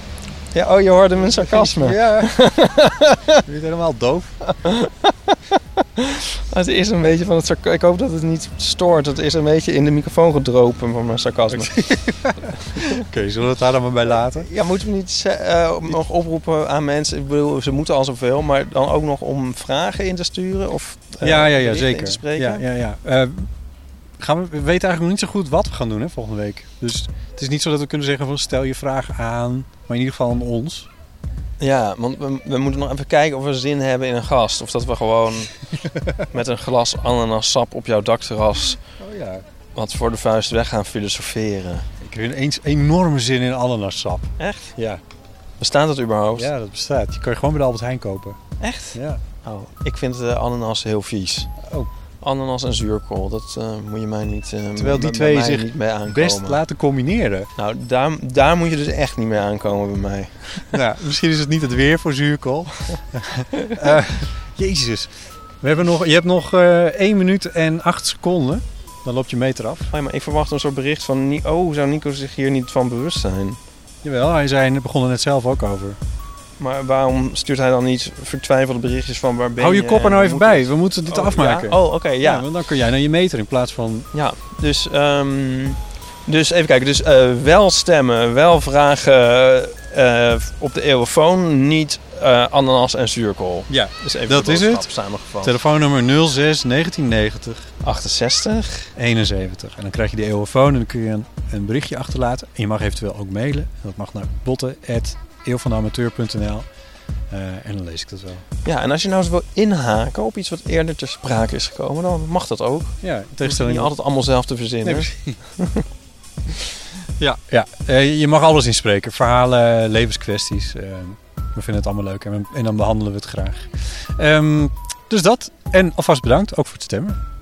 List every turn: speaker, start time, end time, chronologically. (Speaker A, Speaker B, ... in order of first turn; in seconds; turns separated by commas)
Speaker A: 0.5-3.4, Speaker B: 1.2-2.4, Speaker B: 3.4-4.4, Speaker A: 4.4-11.8, Speaker B: 11.5-14.5, Speaker A: 14.1-22.6, Speaker B: 21.2-23.5, Speaker B: 24.2-30.9, Speaker A: 31.6-35.5, Speaker A: 36.2-38.8, Speaker B: 39.0-39.4, Speaker A: 39.7-41.9, Speaker B: 42.0-45.0, Speaker A: 44.4-44.7, Speaker A: 45.6-46.5, Speaker B: 46.4-48.4, Speaker A: 48.6-51.5, Speaker B: 48.9-49.2, Speaker B: 51.6-51.9, Speaker A: 52.2-56.6, Speaker B: 54.8-57.5, Speaker A: 57.5-60.8, Speaker B: 60.7-69.9, Speaker A: 69.9-73.6, Speaker B: 74.0-76.0, Speaker A: 76.6-82.5, Speaker B: 79.6-84.1, Speaker A: 84.1-95.5, Speaker B: 93.7-94.9, Speaker B: 95.4-97.7, Speaker A: 97.8-98.9, Speaker B: 99.0-106.7, Speaker B: 107.3-108.4, Speaker A: 108.6-115.8, Speaker B: 113.0-113.9, Speaker B: 114.8-115.4, Speaker B: 117.2-127.2